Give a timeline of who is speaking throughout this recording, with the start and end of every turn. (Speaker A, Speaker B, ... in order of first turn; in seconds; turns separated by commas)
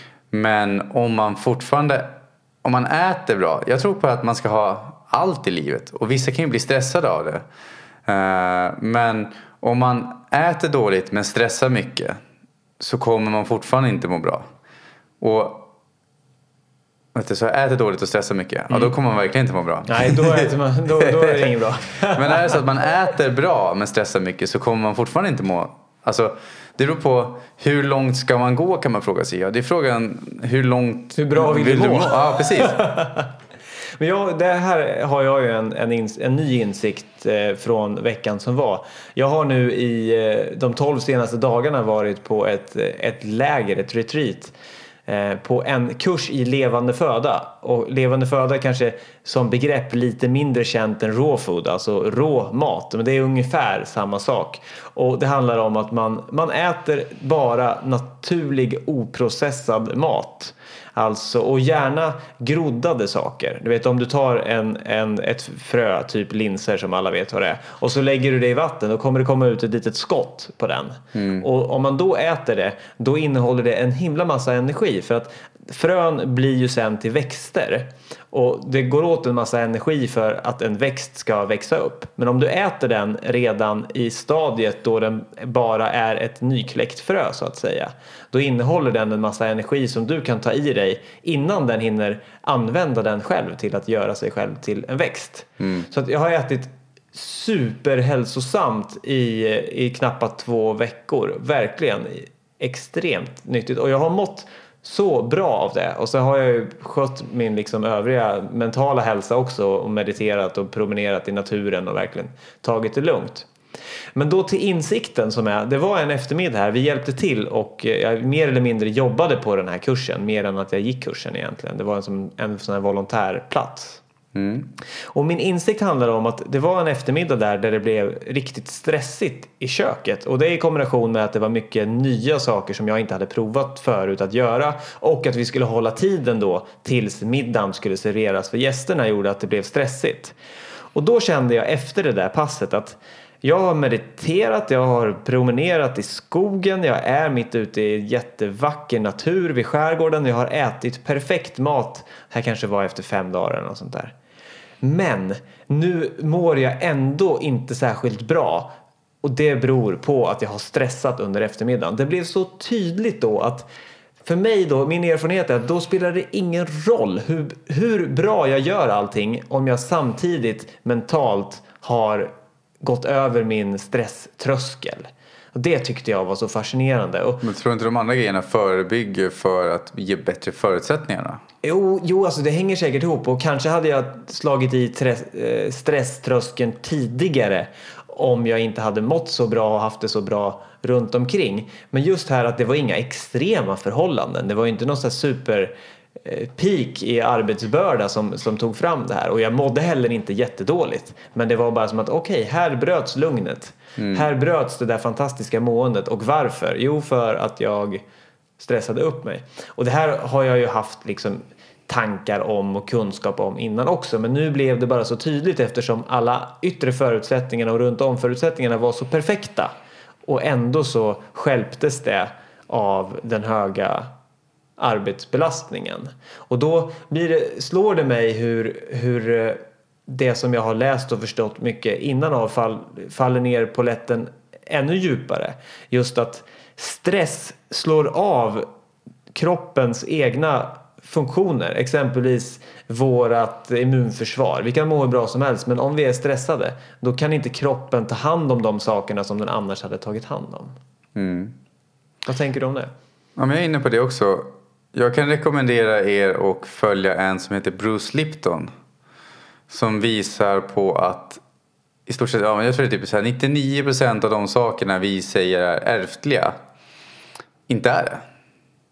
Speaker A: 0.3-7.5, Speaker A: 8.1-12.2, Speaker A: 12.8-14.5, Speaker A: 15.2-15.7, Speaker A: 17.1-20.5, Speaker B: 19.9-22.6, Speaker A: 22.1-32.8, Speaker B: 31.1-33.3, Speaker B: 34.0-44.5, Speaker B: 45.1-113.5, Speaker A: 71.2-71.4, Speaker A: 95.6-95.9, Speaker B: 114.2-124.0, Speaker A: 124.3-124.7, Speaker B: 125.1-140.3, Speaker B: 140.9-154.1, Speaker B: 154.8-163.7, Speaker B: 164.2-172.3, Speaker B: 172.8-177.4, Speaker A: 177.4-181.4, Speaker B: 181.6-195.7, Speaker B: 196.2-208.0, Speaker A: 204.0-204.2, Speaker B: 208.6-219.7, Speaker B: 220.3-224.1, Speaker B: 224.8-238.7, Speaker B: 239.3-250.8, Speaker A: 251.2-251.6, Speaker B: 252.3-252.9, Speaker A: 253.4-258.7, Speaker A: 259.7-261.4, Speaker A: 262.1-266.6, Speaker A: 267.7-268.2